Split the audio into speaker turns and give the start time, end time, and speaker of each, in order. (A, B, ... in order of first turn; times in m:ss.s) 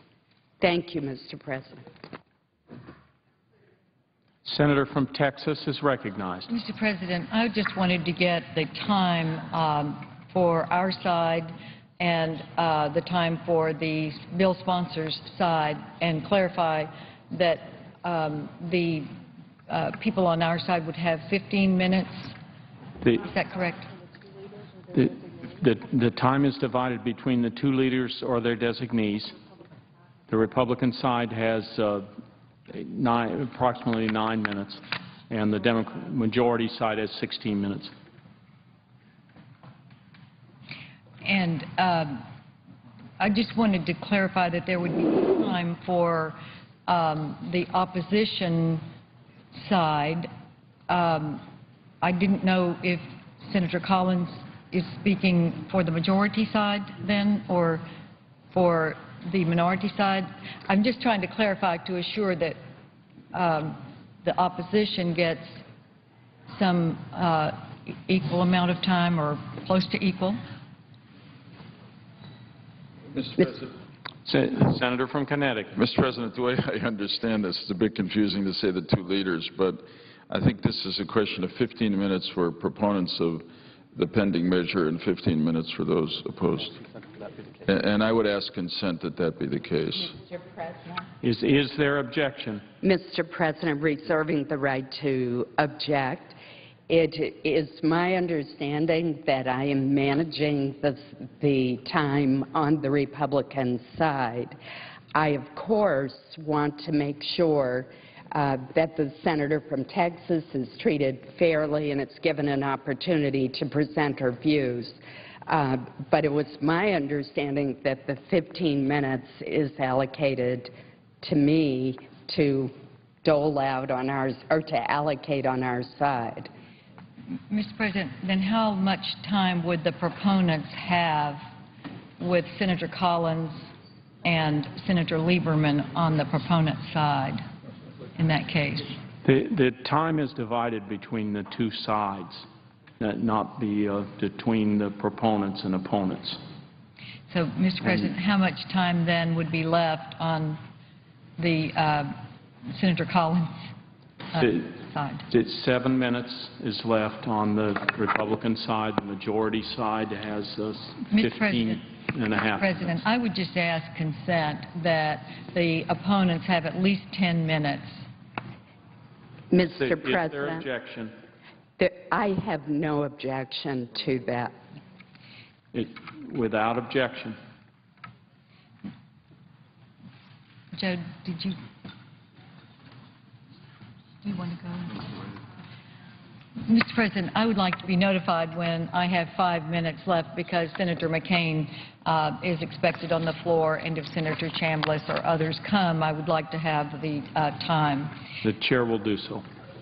0:00.6-0:01.8 A
0:04.4-0:06.5 B
0:06.5-0:19.1 C
0:19.7-0:22.4 C
0:23.2-0:23.9 C
0:24.9-0:29.4 B
0:30.3-0:32.1 B
0:32.7-0:37.9 B
0:41.2-0:42.2 C
0:43.2-0:48.8 C
0:49.5-0:50.3 C
0:50.9-0:51.4 C
0:52.0-0:57.9 C
0:58.5-1:02.6 C
1:03.3-1:05.6 C
1:06.5-1:10.4 C
1:13.2-1:13.6 D
1:14.2-1:15.7 B
1:15.8-1:26.8 D
1:27.6-1:30.1 D
1:31.2-1:32.6 B
1:32.8-1:44.6 A
1:45.1-2:06.5 A
2:07.5-2:11.4 C
2:12.2-2:13.7 C
2:14.2-2:17.4 C
2:18.2-2:19.0 C
2:19.2-2:22.5 B
2:23.0-2:26.4 B
2:27.3-2:30.6 C
2:31.4-2:33.5 C
2:34.3-2:35.2 C
2:34.4-2:34.7 B
2:35.3-2:42.9 B
2:41.1-2:41.8 C
2:42.6-2:48.0 C
2:49.5-2:50.7 A
2:49.6-2:51.2 B
2:51.8-2:54.5 A
2:55.7-2:57.4 B
3:00.7-3:01.6 C
3:04.2-3:05.1 C
3:06.6-3:18.1 C
3:18.4-3:19.4 B